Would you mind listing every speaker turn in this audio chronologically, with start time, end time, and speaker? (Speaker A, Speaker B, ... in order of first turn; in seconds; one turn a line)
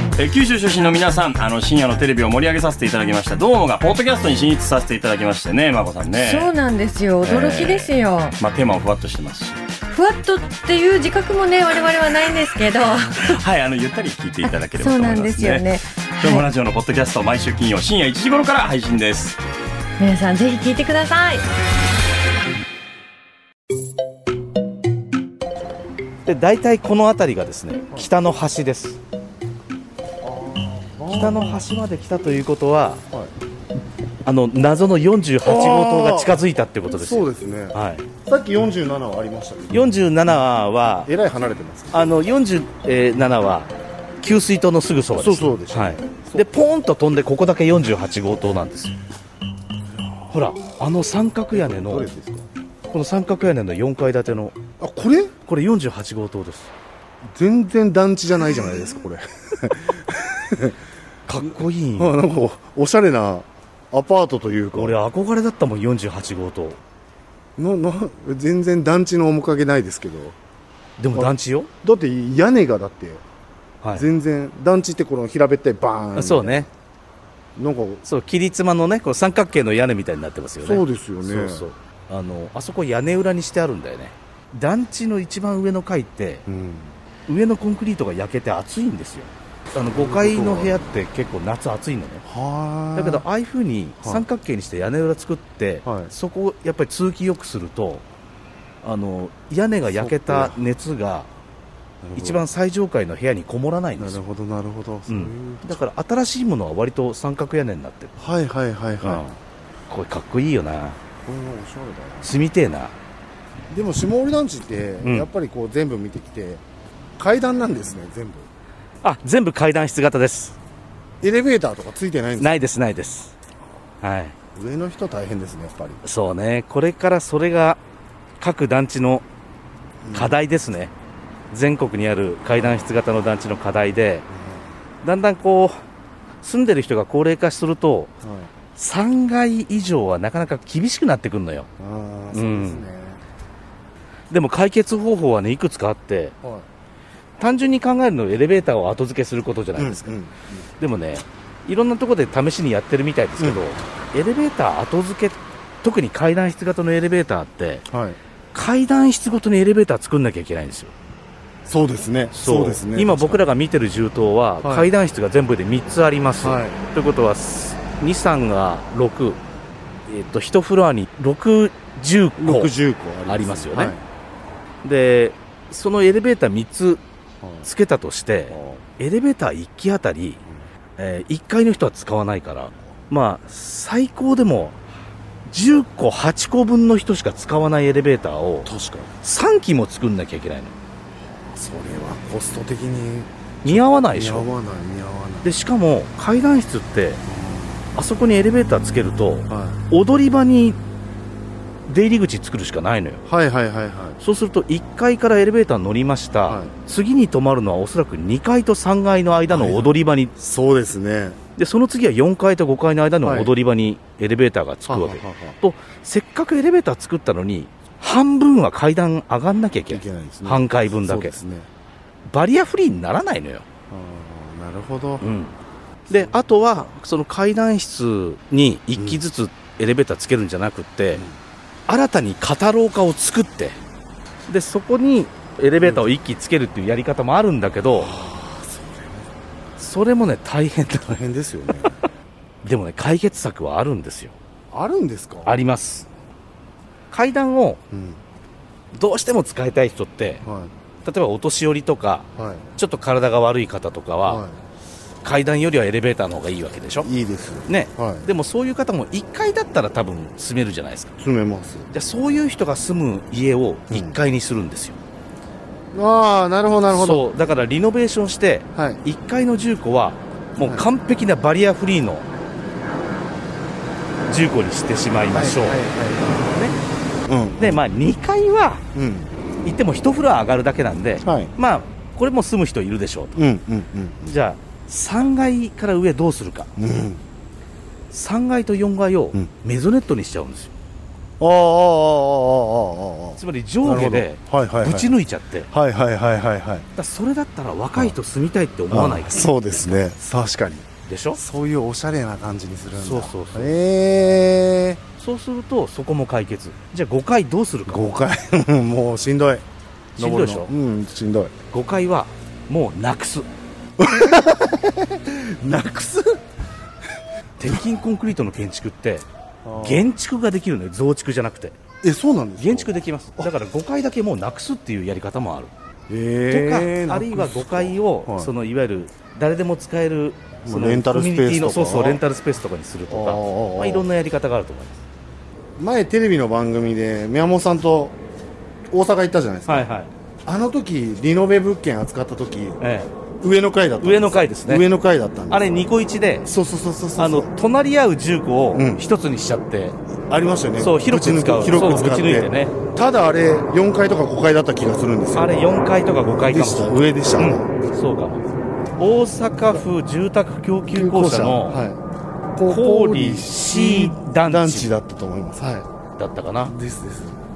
Speaker A: 0.2-6.6
Speaker B: 6.1-8.4
Speaker A: 7.2-9.6
Speaker B: 9.9-13.2
Speaker A: 12.9-19.4
Speaker B: 14.8-16.5
Speaker B: 20.0-21.5
Speaker C: 26.2-29.0
Speaker D: 30.2-31.6
Speaker C: 31.1-33.0
Speaker C: 34.2-38.1
Speaker D: 35.4-40.0
Speaker C: 39.7-41.1
Speaker D: 41.0-42.1
Speaker C: 41.9-43.7
Speaker C: 44.2-49.0
Speaker D: 45.1-46.5
Speaker C: 50.3-52.1
Speaker D: 51.5-52.5
Speaker C: 52.9-54.6
Speaker D: 54.8-55.3
Speaker C: 55.5-56.7
Speaker D: 57.3-60.8
Speaker C: 61.3-62.2
Speaker D: 61.4-65.0
Speaker C: 64.8-66.8
Speaker D: 67.6-70.4
Speaker C: 71.0-71.7
Speaker D: 71.1-73.2
Speaker D: 74.0-76.7
Speaker C: 76.2-76.7
Speaker D: 77.6-78.0
Speaker C: 78.0-86.5
Speaker D: 80.6-81.7
Speaker D: 86.5-87.0
Speaker C: 87.3-92.2
Speaker D: 89.9-90.9
Speaker D: 92.3-93.2
Speaker C: 93.0-98.0
Speaker D: 95.8-96.1
Speaker C: 98.8-101.3
Speaker D: 99.9-100.6
Speaker D: 102.0-102.5
Speaker C: 102.2-104.2
Speaker D: 104.0-105.8
Speaker C: 105.1-108.1
Speaker D: 108.2-109.3
Speaker C: 109.0-109.3
Speaker C: 109.9-111.0
Speaker D: 111.2-112.3
Speaker C: 112.2-113.0
Speaker D: 113.7-116.6
Speaker D: 117.2-118.5
Speaker C: 119.0-120.6
Speaker D: 121.2-122.6
Speaker C: 122.4-123.3
Speaker C: 124.0-124.3
Speaker D: 124.5-126.0
Speaker C: 126.0-127.8
Speaker C: 128.4-129.2
Speaker D: 130.0-130.4
Speaker C: 130.1-130.9
Speaker C: 131.5-134.2
Speaker D: 134.3-134.8
Speaker C: 135.0-135.8
Speaker C: 136.4-138.1
Speaker D: 138.2-138.5
Speaker C: 138.8-141.7
Speaker D: 141.8-143.2
Speaker C: 142.3-142.9
Speaker C: 144.3-146.4
Speaker C: 147.4-150.1
Speaker D: 149.8-150.5
Speaker C: 150.8-157.8
Speaker D: 153.4-153.6
Speaker D: 157.9-158.2
Speaker C: 158.5-160.9
Speaker D: 161.7-163.4
Speaker C: 162.3-169.4
Speaker D: 164.6-164.9
Speaker D: 166.4-166.8
Speaker C: 170.1-172.7
Speaker D: 172.4-174.0
Speaker C: 173.3-174.0
Speaker C: 174.8-177.0
Speaker D: 177.4-177.7
Speaker C: 177.6-180.4
Speaker D: 178.5-178.8
Speaker C: 181.0-184.8
Speaker C: 185.5-188.7
Speaker D: 188.7-189.1
Speaker C: 189.2-190.7
Speaker D: 191.3-195.5
Speaker C: 193.6-194.5
Speaker C: 195.4-197.2
Speaker D: 197.3-197.9
Speaker C: 197.9-200.8
Speaker D: 199.5-199.8
Speaker C: 201.9-203.2
Speaker D: 203.3-204.2
Speaker C: 204.2-210.3
Speaker D: 206.5-206.8
Speaker D: 209.5-211.4
Speaker C: 211.6-221.4
Speaker D: 213.2-213.5
Speaker D: 214.9-215.6
Speaker D: 219.9-221.7
Speaker C: 222.3-223.7
Speaker D: 223.9-225.3
Speaker C: 225.2-225.6
Speaker D: 226.1-226.4
Speaker C: 226.1-231.2
Speaker D: 229.0-229.2
Speaker C: 231.9-233.8
Speaker C: 234.5-238.1
Speaker D: 235.8-236.1
Speaker D: 237.9-239.3
Speaker C: 239.8-241.2
Speaker D: 241.1-242.0
Speaker C: 242.6-244.3
Speaker D: 244.7-245.6
Speaker C: 245.4-246.1
Speaker C: 247.1-247.8
Speaker D: 247.9-248.2
Speaker C: 248.9-250.4
Speaker D: 250.4-250.7
Speaker C: 251.0-254.4
Speaker D: 252.4-252.7
Speaker D: 254.2-254.6
Speaker C: 255.2-257.1
Speaker D: 257.0-258.3
Speaker C: 257.7-261.1
Speaker D: 261.2-261.9
Speaker C: 261.9-265.0
Speaker D: 263.9-264.2
Speaker D: 265.9-267.2
Speaker C: 266.9-272.3
Speaker D: 268.8-269.0
Speaker D: 270.6-270.9
Speaker C: 274.3-276.8
Speaker D: 275.3-276.4
Speaker D: 277.3-277.8
Speaker C: 277.6-278.8
Speaker D: 278.9-279.3
Speaker C: 279.6-283.4
Speaker D: 281.2-281.5
Speaker D: 283.4-284.4
Speaker C: 284.3-286.7
Speaker D: 286.8-287.2
Speaker C: 288.1-290.7
Speaker D: 291.4-295.1
Speaker C: 293.4-295.7
Speaker D: 295.7-296.9
Speaker C: 296.9-300.0
Speaker D: 298.9-305.0
Speaker C: 301.1-301.4
Speaker C: 303.0-303.8
Speaker C: 305.2-308.1
Speaker D: 307.9-309.6
Speaker C: 310.2-310.7
Speaker D: 310.2-311.5
Speaker C: 311.7-313.5
Speaker D: 314.0-316.4
Speaker C: 317.6-319.3
Speaker D: 319.6-320.1
Speaker C: 319.8-321.8
Speaker D: 322.0-323.5
Speaker C: 322.6-325.7
Speaker D: 326.1-328.5
Speaker C: 326.5-335.0
Speaker D: 330.6-332.2
Speaker D: 333.1-334.1
Speaker D: 335.8-338.2
Speaker D: 338.9-339.9
Speaker C: 339.7-340.1
Speaker D: 340.4-342.8
Speaker C: 342.8-343.1
Speaker D: 343.4-345.7
Speaker C: 344.0-344.9
Speaker C: 345.5-346.5
Speaker D: 346.4-347.5
Speaker C: 347.2-350.0
Speaker D: 348.7-349.1
Speaker D: 350.3-355.8
Speaker C: 350.8-352.8
Speaker C: 355.4-358.4
Speaker D: 356.4-357.7
Speaker C: 359.0-361.8
Speaker D: 360.9-362.0
Speaker D: 362.6-365.9
Speaker C: 362.6-364.9
Speaker C: 366.2-366.7
Speaker D: 366.7-367.4